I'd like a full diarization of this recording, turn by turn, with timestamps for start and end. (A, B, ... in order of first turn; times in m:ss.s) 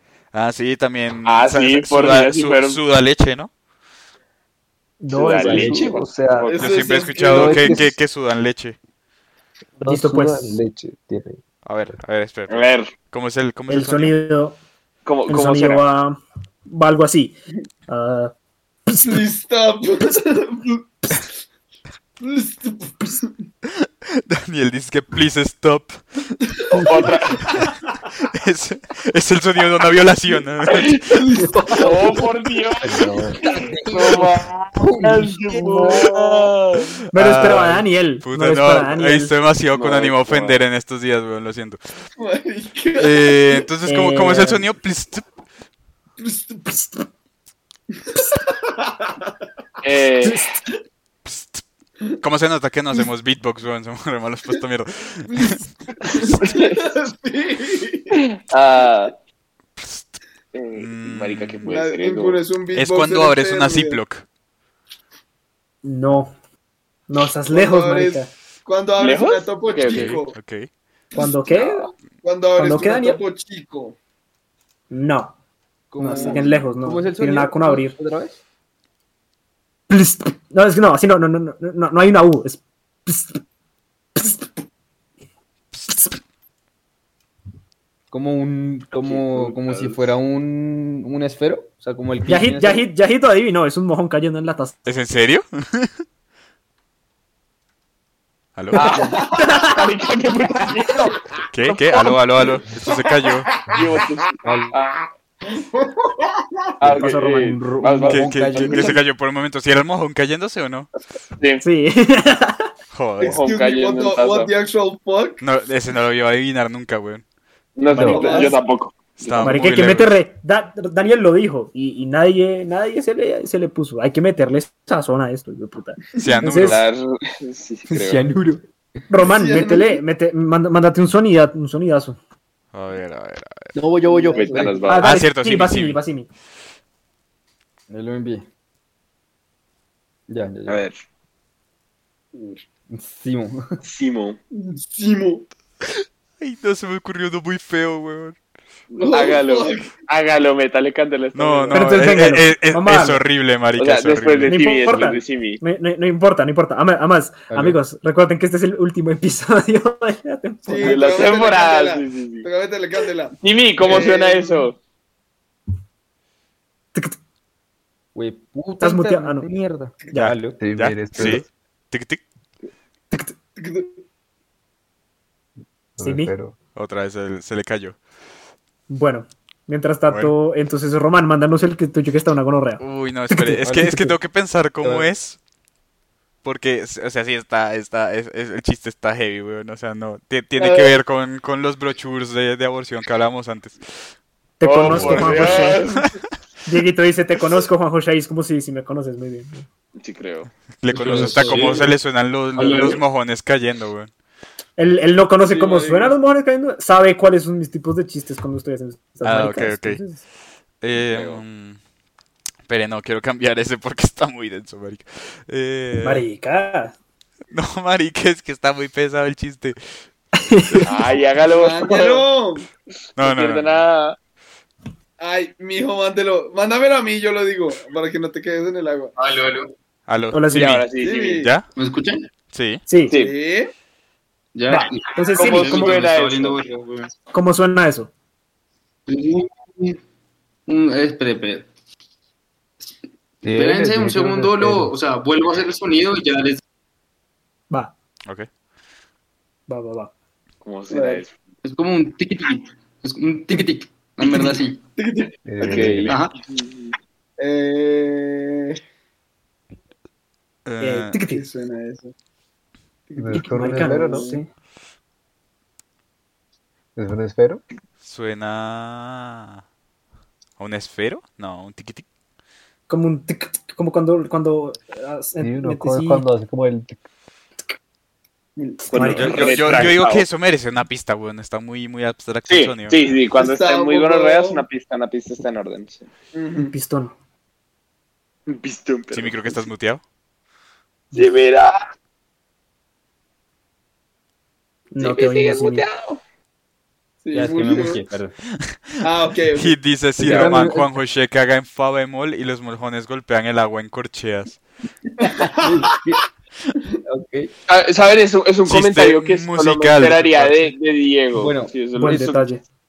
0:00.3-0:03.5 A
0:01.2-0:02.8 B
0:05.0-0:06.5 C
0:05.1-0:06.8 B
0:05.5-0:05.7 D
0:06.5-0:07.9 E
0:06.6-0:08.8 A
0:07.3-0:08.0 C
0:09.8-0:11.4 C
0:09.8-0:10.6 F
0:11.6-0:14.2 A
0:12.5-0:12.9 B
0:13.7-0:14.6 F
0:15.0-0:15.8 B
0:15.3-0:17.3 F
0:17.9-0:18.3 F
0:18.9-0:19.2 F
0:19.0-0:21.2 E
0:22.2-0:23.3 E
0:23.6-0:26.0 A
0:26.7-0:27.7 E
0:26.8-0:27.5 B
0:28.2-0:31.2 A
0:31.1-0:32.2 E
0:31.4-0:32.2 D
0:31.8-0:36.9 B
0:32.8-0:33.4 C
0:33.3-0:36.0 D
0:35.5-0:36.0 F
0:37.1-0:41.8 A
0:37.1-0:39.3 F
0:39.8-0:40.6 B
0:42.2-0:43.7 E
0:43.0-0:45.2 A
0:43.8-0:44.6 F
0:46.2-0:46.8 E
0:48.1-0:49.3 E
0:49.8-0:50.5 B
0:50.2-0:50.5 F
0:51.2-0:51.6 A
0:52.2-0:56.4 A
0:55.3-0:58.2 E
0:56.4-0:56.7 B
0:58.1-0:59.1 B
0:59.8-1:00.2 A
1:00.5-1:02.4 B
1:00.7-1:01.8 A
1:01.7-1:04.0 E
1:02.7-1:04.2 A
1:05.8-1:06.3 F
1:07.1-1:08.3 F
1:07.5-1:10.4 E
1:09.0-1:10.1 B
1:09.8-1:10.7 A
1:11.1-1:11.9 F
1:11.5-1:11.9 B
1:12.2-1:14.0 E
1:12.6-1:13.2 F
1:14.9-1:15.3 F
1:15.9-1:18.4 D
1:16.0-1:18.0 F
1:16.1-1:16.4 E
1:19.9-1:23.4 F
1:24.2-1:24.5 F
1:25.9-1:26.1 F
1:28.1-1:32.8 D
1:29.0-1:30.1 B
1:32.2-1:34.7 F
1:34.8-1:35.9 A
1:38.6-1:39.0 A
1:38.7-1:39.8 F
1:38.8-1:41.2 B
1:38.9-1:39.7 E
1:41.5-1:43.5 A
1:42.8-1:44.0 E
1:43.7-1:45.1 B
1:44.4-1:44.7 D
1:45.4-1:46.7 E
1:46.8-1:49.0 B
1:46.8-1:48.0 F
1:47.6-1:49.0 D
1:48.1-1:50.9 A
1:51.6-1:52.7 F
1:52.9-1:53.4 A
1:53.2-1:55.4 E
1:53.2-1:54.5 B
1:55.4-1:57.2 A
1:57.8-1:59.6 B
1:57.9-1:58.5 F
1:57.9-1:58.2 C
1:57.9-1:58.6 E
1:59.2-2:00.1 A
1:59.4-2:06.8 F
2:06.2-2:06.8 A
2:06.6-2:08.2 B
2:07.9-2:08.6 D
2:09.1-2:12.2 F
2:09.2-2:10.0 E
2:12.7-2:13.7 A
2:13.7-2:15.0 D
2:14.1-2:14.7 E
2:14.3-2:15.1 B
2:14.8-2:16.3 F
2:15.0-2:16.0 A
2:17.9-2:18.4 D
2:20.3-2:20.8 D
2:20.7-2:21.0 B
2:22.3-2:22.6 E
2:22.9-2:23.6 D
2:23.8-2:24.4 B
2:24.5-2:25.4 E
2:26.4-2:28.4 A
2:28.9-2:31.8 B
2:29.0-2:29.9 E
2:31.3-2:34.6 A
2:31.7-2:33.2 F
2:33.8-2:35.6 B
2:34.5-2:41.1 F
2:37.5-2:37.8 D
2:40.6-2:44.7 E
2:40.8-2:42.5 B
2:43.4-2:44.8 B
2:48.1-2:50.6 D
2:48.8-2:49.5 F
2:50.2-2:52.2 A
2:50.6-2:51.4 C
2:53.6-2:54.0 E
2:56.0-2:56.6 C
2:56.0-2:56.3 F
2:56.7-2:58.0 A
2:58.9-3:04.1 F
3:02.8-3:05.4 A
3:03.6-3:04.0 D
3:04.8-3:05.1 D
3:06.4-3:13.8 A
3:10.6-3:11.0 E
3:14.6-3:15.8 F
3:14.6-3:16.1 B
3:14.9-3:15.3 C
3:14.9-3:16.2 A
3:16.6-3:19.6 F
3:20.0-3:20.5 B
3:20.8-3:24.1 A
3:20.9-3:21.9 D
3:22.6-3:23.0 D
3:24.8-3:30.2 F
3:25.5-3:26.2 E
3:29.2-3:30.0 A
3:30.8-3:31.8 A
3:30.9-3:31.4 B
3:32.7-3:36.2 A
3:36.0-3:36.9 F
3:37.5-3:39.9 A
3:40.4-3:40.9 F
3:40.8-3:42.3 B
3:41.4-3:42.7 E
3:43.2-3:43.8 A
3:43.2-3:44.2 B
3:45.2-3:49.1 E
3:49.2-3:49.7 G
3:50.1-3:51.7 A
3:50.3-3:50.8 F
3:50.5-3:51.4 B
3:51.0-3:51.5 E
3:51.8-3:52.2 G
3:52.5-3:52.8 A
3:52.9-3:53.2 F
3:53.1-3:53.3 B
3:53.1-3:53.7 E
3:54.6-3:57.0 G
3:54.7-3:56.0 F
3:55.3-3:56.7 B
3:56.0-3:56.4 D
3:57.3-3:58.1 F
3:59.1-3:59.4 G
4:00.7-4:01.6 G
4:03.4-4:04.9 C
4:03.6-4:04.7 D
4:04.7-4:06.6 G
4:09.7-4:10.1 F
4:10.6-4:11.3 B
4:10.9-4:11.2 E
4:11.9-4:12.1 D
4:13.5-4:14.6 D
4:14.2-4:14.6 G
4:15.0-4:16.1 E
4:15.4-4:16.2 C
4:15.6-4:16.9 B
4:17.4-4:18.8 E
4:20.6-4:21.2 A
4:20.8-4:21.4 F
4:21.3-4:22.1 E
4:23.1-4:24.4 E
4:23.2-4:24.3 C
4:23.3-4:24.4 F
4:27.0-4:27.6 C
4:28.0-4:29.6 A
4:30.6-4:32.0 A
4:32.9-4:36.3 F
4:35.4-4:37.0 C
4:38.6-4:39.6 E
4:38.8-4:39.8 F
4:38.9-4:40.3 B
4:39.0-4:43.0 A
4:42.5-4:46.1 B
4:43.4-4:44.6 E
4:46.3-4:46.7 E
4:46.6-4:47.1 F
4:48.5-4:49.7 B
4:49.1-4:50.0 A
4:51.1-4:51.9 B
4:54.9-4:55.8 F
4:55.0-4:56.2 B
4:57.2-4:58.0 E
4:57.3-4:58.4 D
4:58.5-5:04.6 A
4:59.0-5:00.6 E
5:00.2-5:01.0 D
5:05.2-5:06.0 E
5:05.6-5:06.2 D
5:07.0-5:07.5 D
5:07.7-5:12.4 B
5:08.6-5:10.7 A
5:11.3-5:11.7 D
5:11.9-5:12.6 F